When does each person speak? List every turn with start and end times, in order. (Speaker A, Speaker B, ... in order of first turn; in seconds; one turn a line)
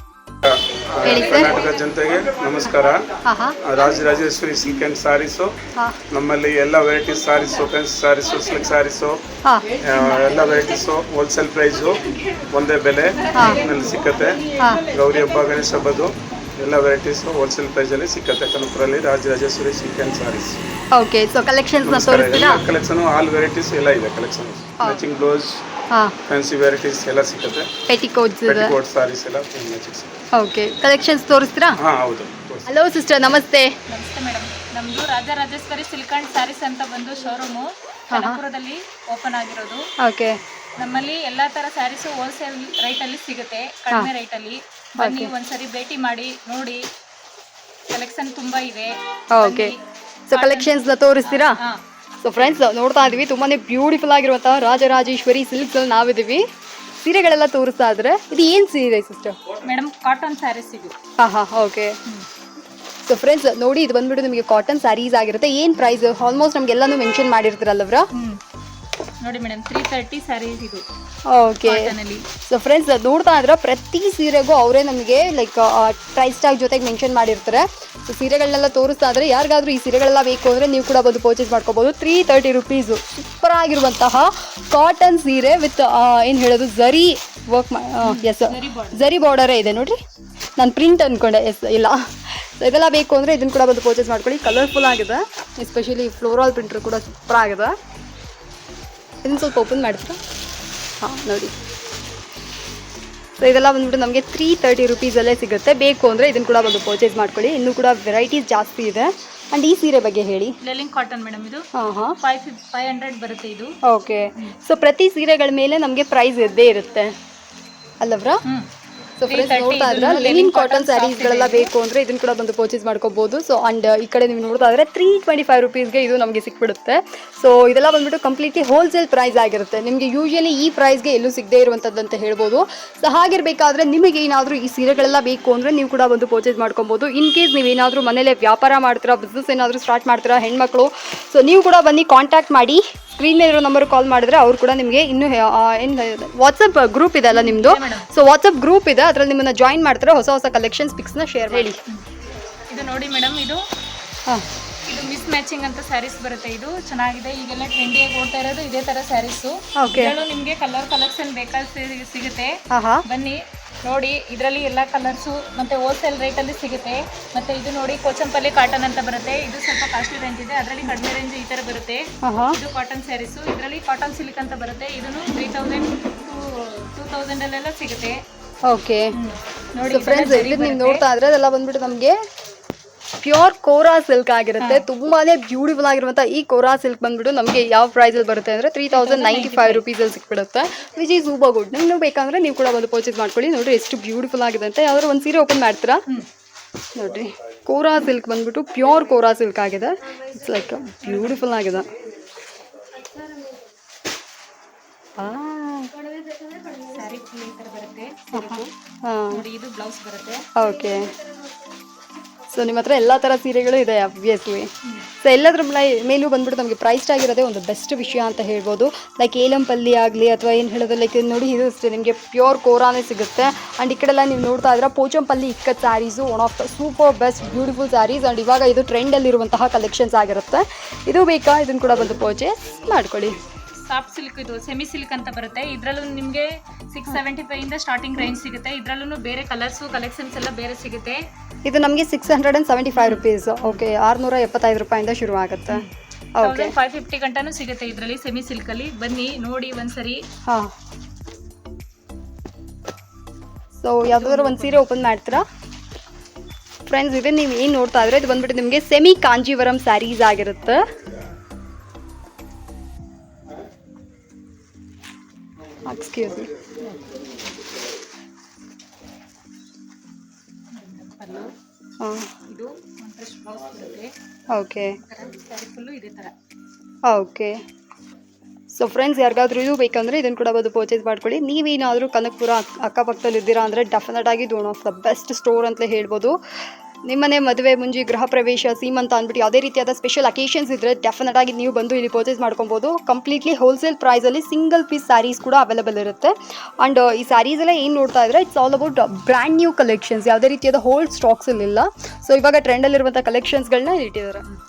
Speaker A: 0.4-3.1
Speaker B: 1.0-1.5
Speaker B: 3.2-3.6
Speaker A: 3.6-5.5
Speaker A: 6.1-9.2
Speaker A: 9.8-20.6
Speaker B: 13.3-13.6
Speaker B: 20.9-22.6
Speaker A: 21.8-25.6
Speaker B: 24.8-25.1
Speaker A: 26.3-27.7
Speaker B: 27.9-28.8
Speaker A: 28.4-30.1
Speaker B: 30.3-31.8
Speaker A: 31.8-32.7
Speaker B: 32.6-33.7
Speaker C: 33.9-39.8
Speaker B: 38.1-38.4
Speaker B: 40.0-40.4
Speaker C: 40.8-46.8
Speaker B: 45.0-45.3
Speaker C: 47.9-49.8
Speaker B: 49.3-49.7
Speaker B: 50.3-51.6
Speaker C: 50.3-51.8
Speaker B: 52.2-56.4
Speaker B: 57.0-59.4
Speaker C: 59.6-60.9
Speaker B: 61.2-62.0
Speaker B: 63.0-68.1
Speaker C: 69.2-70.8
Speaker B: 71.2-71.9
Speaker C: 71.6-72.3
Speaker B: 72.4-90.0
Speaker C: 88.0-89.0
Speaker B: 90.6-97.7
Speaker B: 99.2-100.2
Speaker B: 101.0-101.5
Speaker B: 103.4-110.5
Speaker C: 110.6-111.7
Speaker B: 111.7-112.2
Speaker C: 112.2-113.7
Speaker B: 113.8-117.1
Speaker B: 118.0-118.4
Speaker B: 119.2-151.8
Speaker C: 119.3-121.7
Speaker C: 147.3-148.1
Speaker C: 152.7-153.6
Speaker C: 154.9-162.6
Speaker B: 159.8-160.1
Speaker B: 162.7-163.1
Speaker C: 163.1-178.2
Speaker B: 172.2-172.6
Speaker B: 178.6-179.1
Speaker C: 179.1-181.0
Speaker B: 179.9-182.1
Speaker B: 183.2-196.0
Speaker C: 184.6-184.8
Speaker C: 188.9-189.8
Speaker B: 196.9-201.9
Speaker B: 205.2-205.9
Speaker C: 206.5-208.7
Speaker B: 208.3-209.4
Speaker C: 209.3-210.4
Speaker B: 210.6-211.1
Speaker B: 212.5-214.7
Speaker B: 215.2-233.3
Speaker C: 233.8-241.2
Speaker B: 241.6-245.8
Speaker C: 243.0-243.2
Speaker B: 246.3-246.7
Speaker C: 246.4-250.2
Speaker B: 253.8-255.4
Speaker C: 254.1-255.0
Speaker B: 256.9-260.8
Speaker B: 265.9-266.5
Speaker C: 266.8-267.4
Speaker C: 270.7-271.5
Speaker B: 272.0-272.3
Speaker C: 272.5-274.1
Speaker B: 274.5-275.0
Speaker C: 274.9-276.3
Speaker B: 277.1-277.6
Speaker B: 278.7-286.4
Speaker B: 287.0-304.4